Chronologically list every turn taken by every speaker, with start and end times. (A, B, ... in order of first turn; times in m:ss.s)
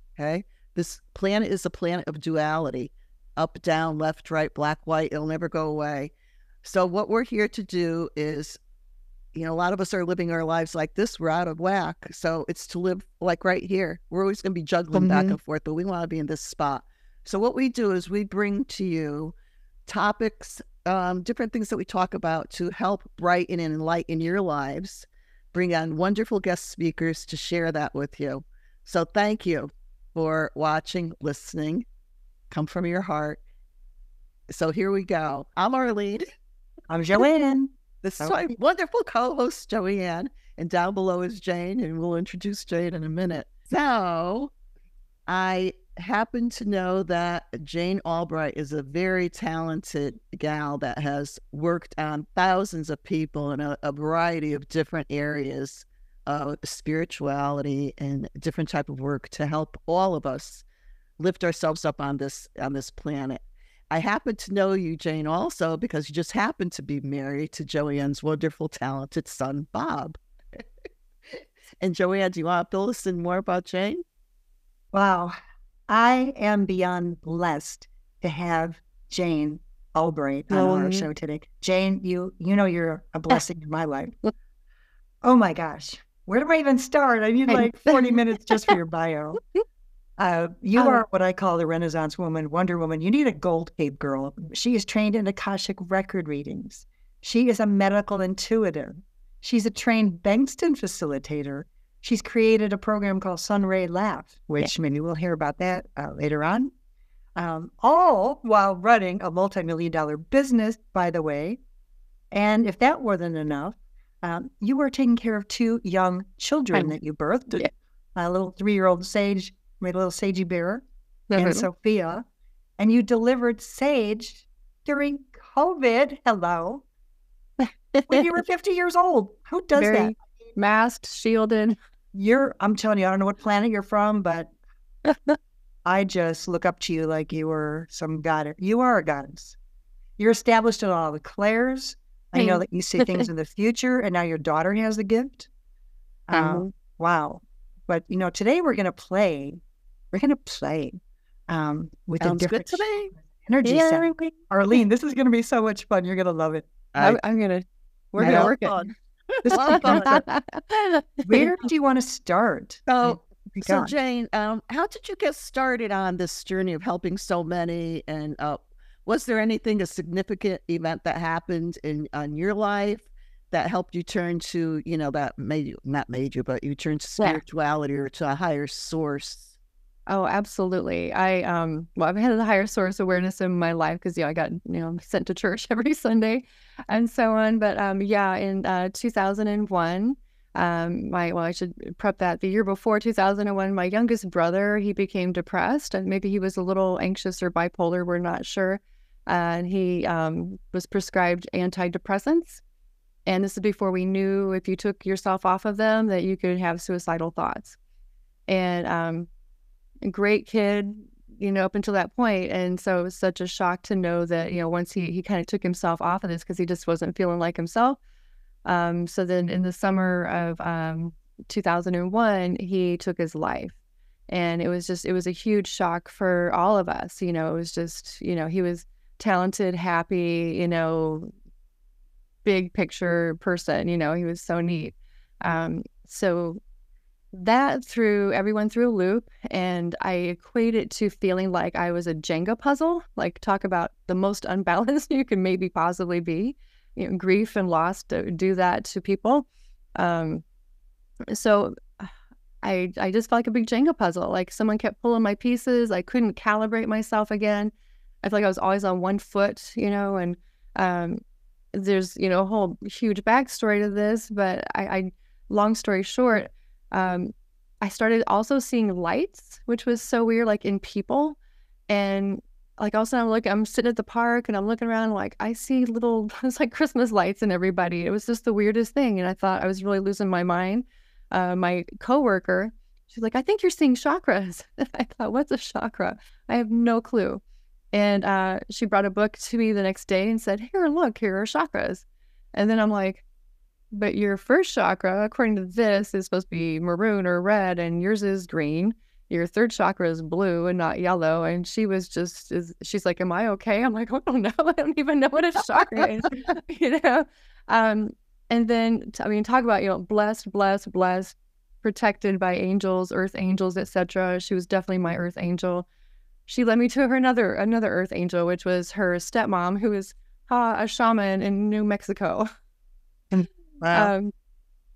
0:00.2-0:06.1 A
0:06.6-0:08.6 A
0:09.3-0:19.3 A
0:14.9-0:15.4 B
0:19.9-0:31.9 A
0:32.5-0:33.4 A
0:34.5-0:36.3 A
0:36.9-0:38.4 B
0:38.0-0:44.5 A
0:45.3-1:00.6 A
1:01.2-1:10.2 A
1:11.8-1:14.0 A
1:14.9-1:15.4 B
1:15.9-1:24.2 B
1:20.5-1:21.1 C
1:25.2-1:29.4 B
1:27.5-1:28.8 C
1:30.2-1:46.7 B
1:30.8-1:31.0 C
1:47.4-1:51.6 B
1:52.3-2:00.8 B
2:01.3-2:01.7 C
2:01.4-2:02.3 B
2:02.8-2:06.8 B
2:07.6-2:08.2 C
2:08.1-2:10.2 B
2:09.8-2:11.8 C
2:12.1-2:14.5 B
2:15.1-2:15.4 C
2:15.8-2:19.6 B
2:20.2-2:25.5 B
2:22.4-2:23.3 C
2:26.3-2:29.6 B
2:26.3-2:26.7 C
2:30.1-2:36.7 B
2:32.2-2:33.1 A
2:33.6-2:34.2 C
2:36.9-2:37.2 A
2:37.0-2:38.8 C
2:38.2-2:38.5 B
2:38.2-2:40.2 A
2:39.4-2:40.1 B
2:39.5-2:41.5 C
2:41.2-2:43.9 B
2:42.9-2:59.5 A
3:00.1-3:22.6 C
3:23.3-3:27.8 C
3:28.5-3:29.3 C
3:30.0-3:38.0 C
3:38.7-3:43.8 C
3:44.3-3:51.3 C
3:52.4-3:56.6 C
3:57.3-4:10.4 C
4:11.3-4:17.7 C
4:18.2-4:21.2 C
4:21.7-4:31.4 C
4:31.9-4:47.4 C
4:47.9-4:53.2 C
4:53.9-5:15.9 C
5:16.5-5:22.5 C
5:23.3-5:24.1 B
5:23.9-5:24.3 C